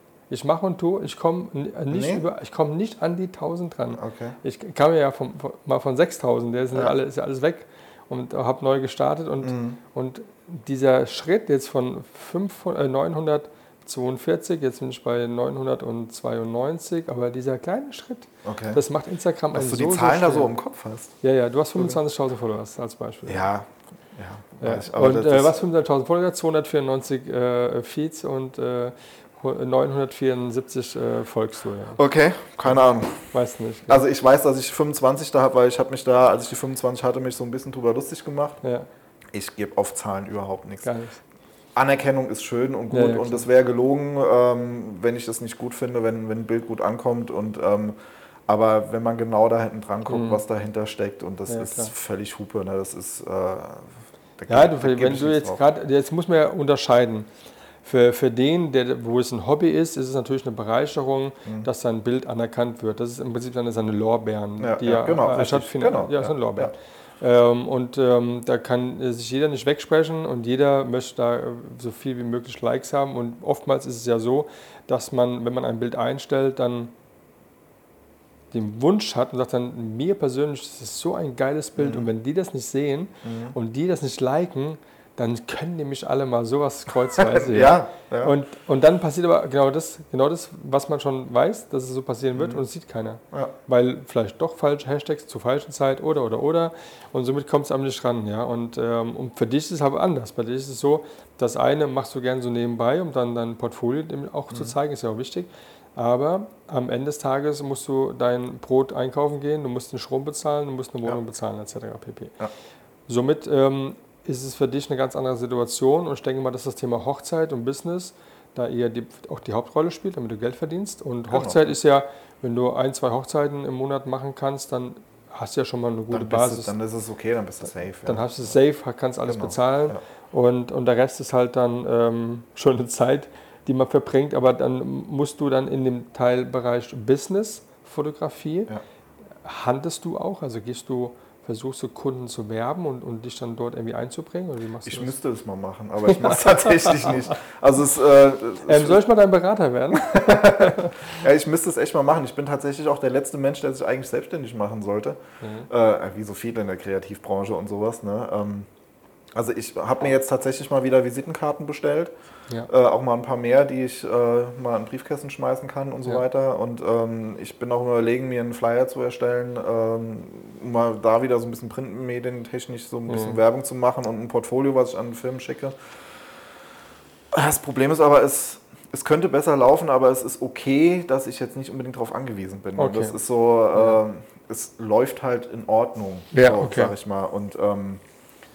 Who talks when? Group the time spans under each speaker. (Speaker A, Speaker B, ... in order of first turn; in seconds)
Speaker A: 0.3-20.5, 21.2-23.5, 24.6-32.0, 32.7-34.0, 40.8-41.2, 42.9-43.5, 50.1-50.4, 51.5-51.9, 54.5-57.3, 57.8-76.9, 78.5-112.4, 113.1-126.7, 128.1-138.7, 139.4-145.1, 146.1-147.3, 148.7-151.2, 155.4-155.7, 173.1-173.4, 182.8-183.2, 186.3-186.9
Speaker B: 1.9-2.2, 4.0-4.4, 9.4-9.8, 18.4-18.8, 19.5-21.1, 21.8-22.0, 23.3-25.6, 32.0-33.3, 33.9-38.6, 39.3-40.9, 41.7-55.6, 64.6-66.7, 81.8-82.1, 83.2-83.6, 87.2-88.4, 92.4-92.6, 121.3-121.7, 126.1-128.6, 129.3-130.0, 144.8-149.0, 149.9-158.7, 159.3-162.1, 162.7-175.9, 177.3-188.0